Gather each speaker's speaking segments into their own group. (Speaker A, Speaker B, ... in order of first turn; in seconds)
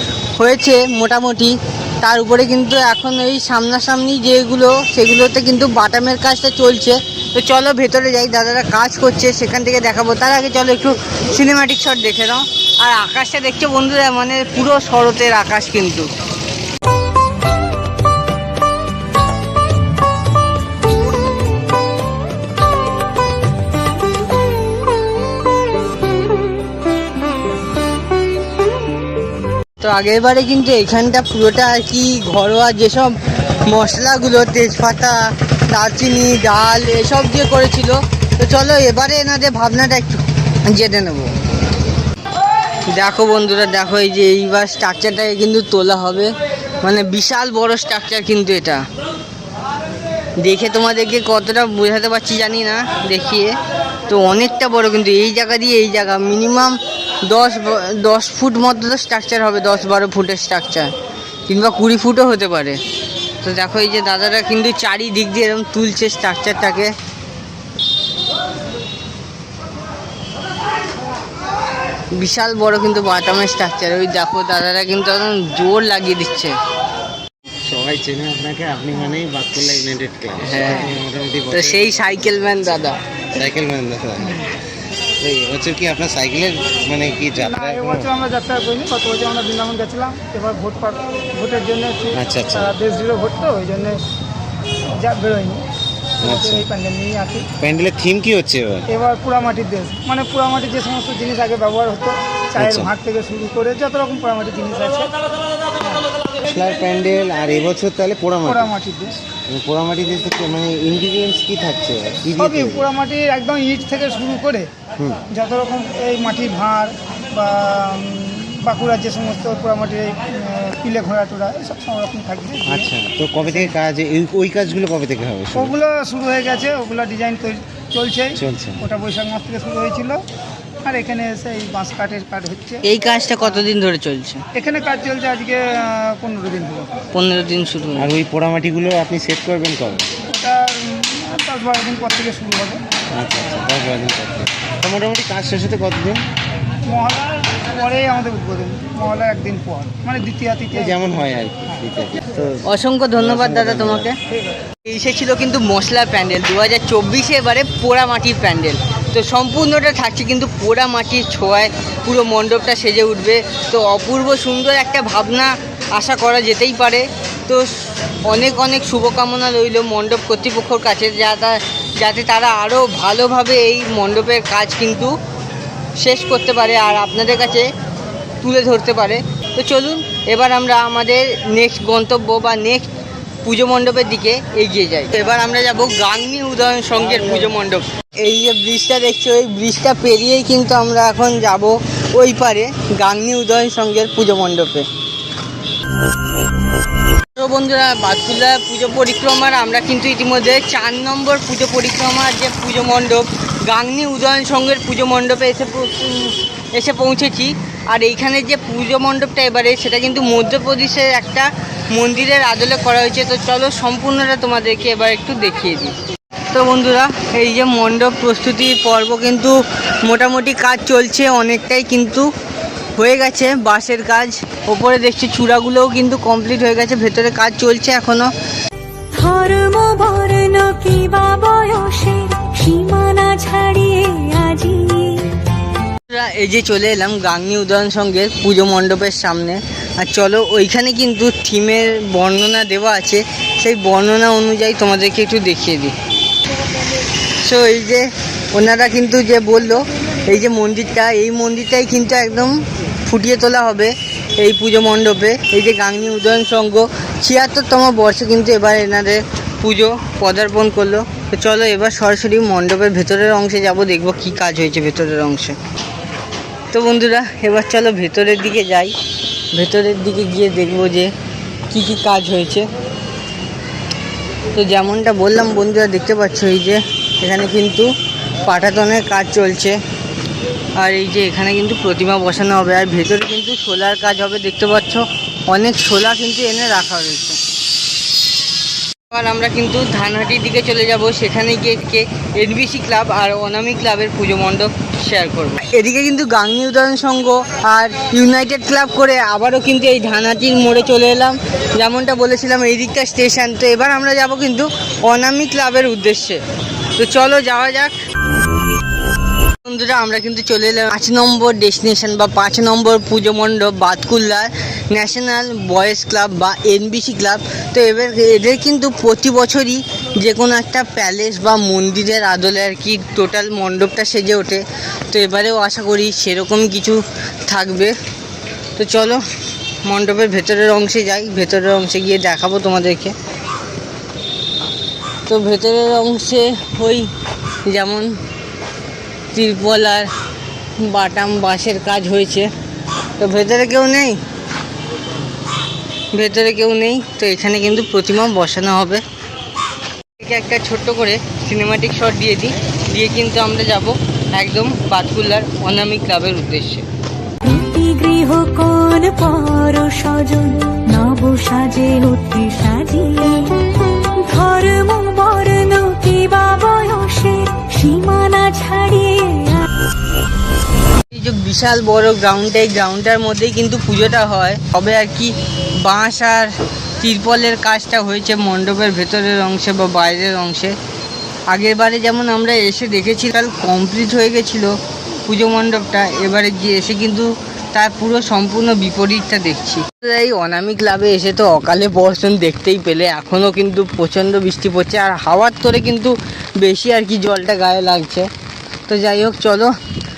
Speaker A: 0.4-16.1, 29.8-33.1, 33.7-41.3, 42.9-46.3, 46.8-48.8, 50.4-53.5, 54.1-56.8, 57.3-60.9, 61.5-62.8, 63.4-66.9, 72.2-76.5, 80.4-81.0, 81.5-83.0, 132.8-134.4, 137.1-138.1, 152.7-154.2, 154.8-167.7, 168.3-175.1, 176.0-177.7, 178.4-182.9, 183.4-194.9, 197.4-215.9, 216.5-222.3, 222.9-228.3, 236.1-245.9, 247.4-265.6, 266.7-268.9, 269.5-271.1, 271.7-272.7, 274.6-277.9, 278.4-279.8, 280.8-287.4, 289.1-306.4, 307.0-307.9, 309.6-327.9, 328.8-329.2, 329.8-333.1, 335.3-337.1, 337.7-338.1, 339.3-340.1, 340.8-342.5, 343.2-344.2, 346.1-349.0, 350.2-356.9, 371.1-380.8, 381.5-384.7, 385.3-398.3, 398.9-399.7
Speaker B: 77.6-82.6, 83.3-84.4, 85.2-88.1, 92.2-92.8, 96.2-96.7, 97.6-98.9, 102.6-102.9, 106.4-108.7, 109.3-112.9, 122.7-125.7, 128.4-128.8, 138.0-140.1, 143.1-146.2, 150.8-152.6, 153.2-154.1
Speaker C: 87.5-94.0, 95.0-95.6, 96.2-97.5, 98.9-105.1, 108.5-109.2, 112.4-114.7, 115.3-122.9, 123.5-123.7, 125.5-130.2, 130.8-132.8, 134.6-136.9, 140.3-142.8, 146.9-151.0, 154.3-154.6
Speaker D: 229.1-235.2, 357.4-369.7